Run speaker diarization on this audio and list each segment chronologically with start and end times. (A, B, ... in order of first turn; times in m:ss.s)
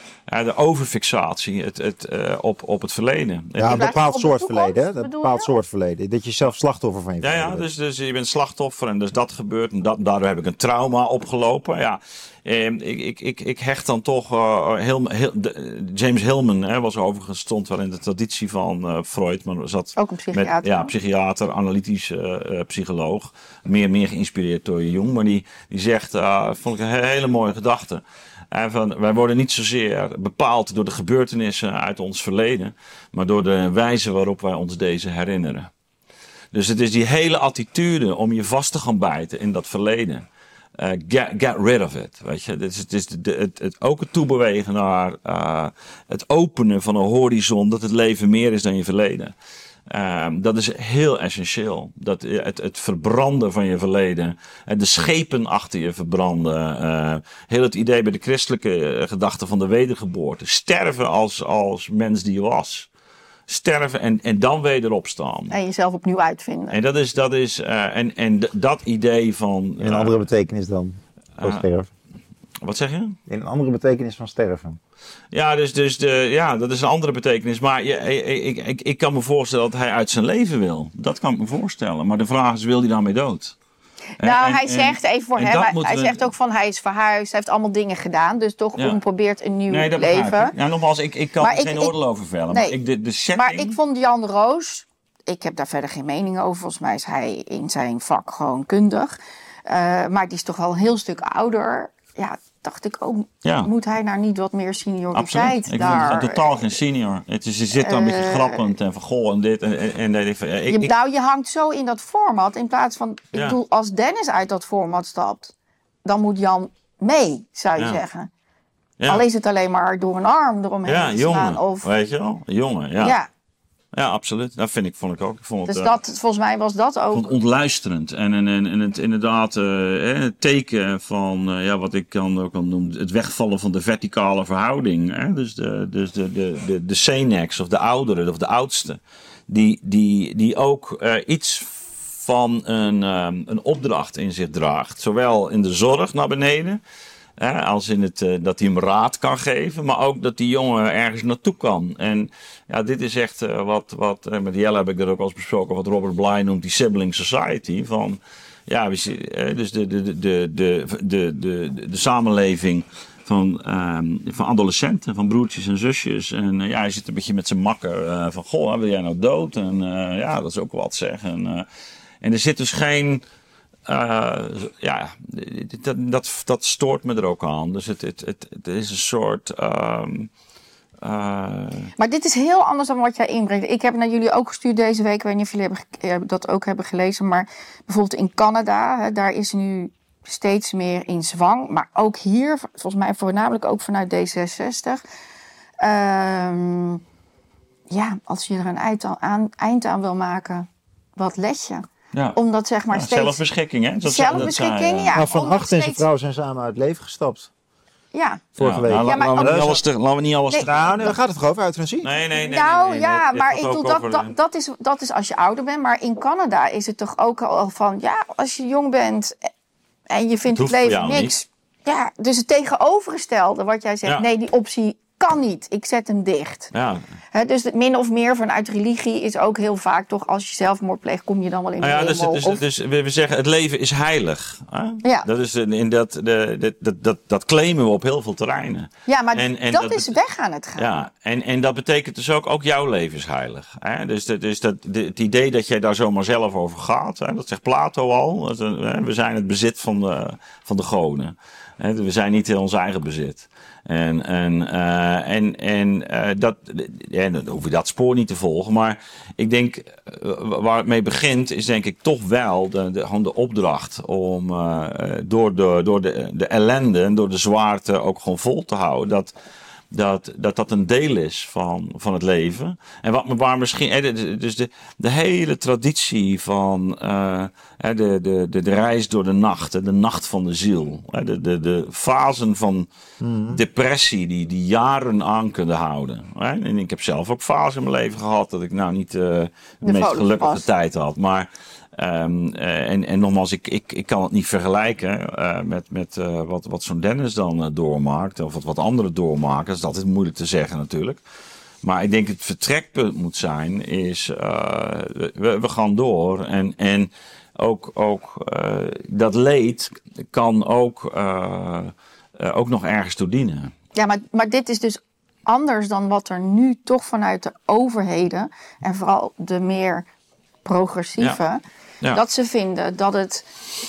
0:00.3-0:03.9 A
0:03.6-0:07.6 B
0:03.7-0:05.5 C
0:07.2-0:35.7 A
0:20.0-0:20.9 C
0:36.5-0:40.2 A
0:40.8-0:49.3 A
0:49.9-1:02.9 A
1:03.5-1:05.6 A
1:05.5-1:06.8 C
1:06.7-1:10.1 A
1:09.8-1:11.9 B
1:11.4-1:11.6 A
1:12.6-1:13.2 A
1:13.3-1:14.8 B
1:15.3-1:23.6 A
1:24.2-1:26.3 A
1:24.2-1:30.5 C
1:29.7-1:33.8 A
1:31.4-1:31.9 C
1:32.5-1:32.7 C
1:33.4-1:46.6 C
1:43.4-1:43.7 A
1:45.1-1:50.9 A
1:47.8-1:48.6 C
1:50.7-1:55.5 C
1:53.3-1:53.6 A
1:56.0-1:58.3 C
1:59.1-2:01.9 C
2:00.8-2:03.2 A
2:03.0-2:03.3 C
2:03.9-2:06.0 A
2:05.6-2:07.3 C
2:07.1-2:26.8 A
2:27.4-2:51.6 A
2:52.2-2:53.2 A
2:53.8-3:00.3 A
3:01.0-3:01.9 A
3:02.0-3:15.0 C
3:15.8-3:17.0 C
3:17.9-3:23.4 C
3:22.1-3:22.4 A
3:22.9-3:25.2 A
3:24.0-3:26.0 C
3:25.1-3:27.5 B
3:28.1-3:29.7 C
3:28.6-3:29.8 B
3:28.6-3:31.2 A
3:30.6-3:32.1 B
3:32.0-3:34.3 A
3:32.3-3:39.5 C
3:40.1-3:46.7 C
3:40.5-3:41.3 A
3:46.7-3:47.0 A
3:47.3-3:52.6 C
3:51.8-4:00.2 A
3:59.1-4:00.9 C
4:00.8-4:29.3 A
4:29.9-4:42.9 A
4:43.2-4:43.6 B
4:43.5-5:01.2 A
4:49.8-4:50.6 C
5:01.8-5:13.7 A
5:13.9-5:20.1 C
5:20.6-5:23.5 C